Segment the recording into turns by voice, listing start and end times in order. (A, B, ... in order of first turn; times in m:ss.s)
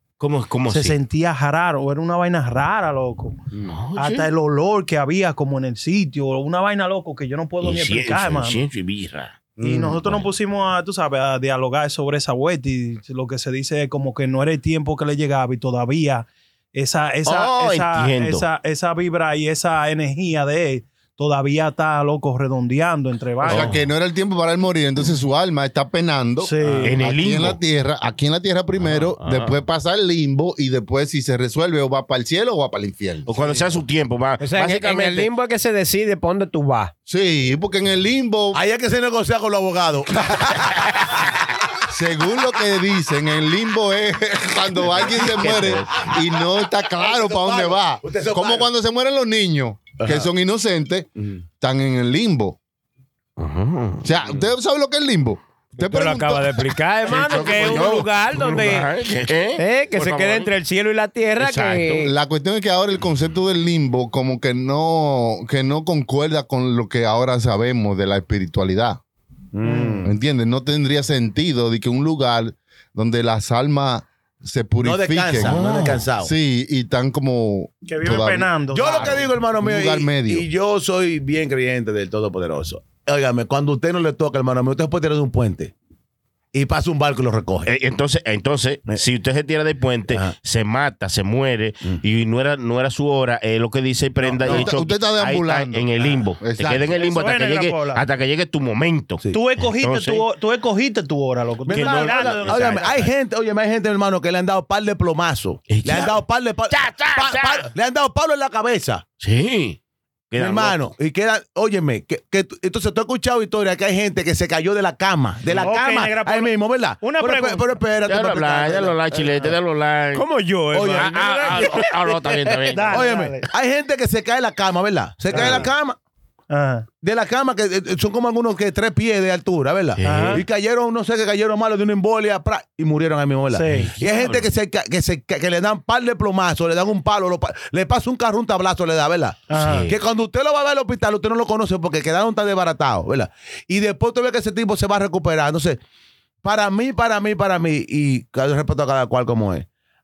0:00.2-0:01.0 A
0:00.7-0:03.4 B
0:03.7-0:04.3 A
0:04.0-0:08.6 B
0:07.6-0:10.3 A
0:09.6-0:10.0 C
0:09.6-0:23.7 B
0:17.2-0:18.4 A
0:23.4-0:23.7 A
0:23.4-0:33.3 C
0:26.4-0:26.9 B
0:26.6-0:26.9 D
0:26.8-0:27.6 A
0:28.8-0:29.5 A
0:33.3-0:35.3 A
0:34.4-0:36.9 D
0:37.1-0:38.6 C
0:38.5-0:41.2 E
0:41.9-0:52.6 C
0:45.4-0:46.0 A
0:46.9-0:48.7 E
0:50.0-0:50.3 E
0:53.4-0:54.1 A
0:54.0-0:58.1 C
0:55.8-0:58.9 D
0:57.2-1:00.5 A
0:59.6-1:02.1 D
1:01.4-1:02.0 A
1:01.9-1:09.0 C
1:09.5-1:10.1 E
1:09.6-1:10.0 B
1:10.0-1:20.5 C
1:14.8-1:16.3 E
1:15.4-1:16.0 A
1:17.9-1:19.2 B
1:18.7-1:25.7 E
1:26.5-1:27.7 E
1:27.6-1:40.2 A
1:34.2-1:34.7 E
1:34.4-1:36.9 C
1:37.0-1:38.0 B
1:39.3-1:43.0 B
1:41.6-1:49.0 E
1:41.7-1:43.1 A
1:45.7-1:47.7 A
1:49.2-1:49.8 A
1:50.3-1:50.8 A
1:50.4-1:59.5 E
1:55.6-1:57.6 B
1:58.0-2:00.2 A
2:00.1-2:01.7 D
2:00.7-2:01.8 E
2:00.9-2:03.1 A
2:02.7-2:03.5 B
2:02.8-2:06.0 E
2:05.3-2:05.7 A
2:05.3-2:05.6 B
2:06.5-2:06.9 B
2:07.0-2:25.8 E
2:10.0-2:10.4 A
2:10.0-2:10.4 B
2:13.5-2:13.9 B
2:13.7-2:14.4 A
2:19.5-2:19.9 B
2:19.6-2:19.9 A
2:26.4-2:29.6 E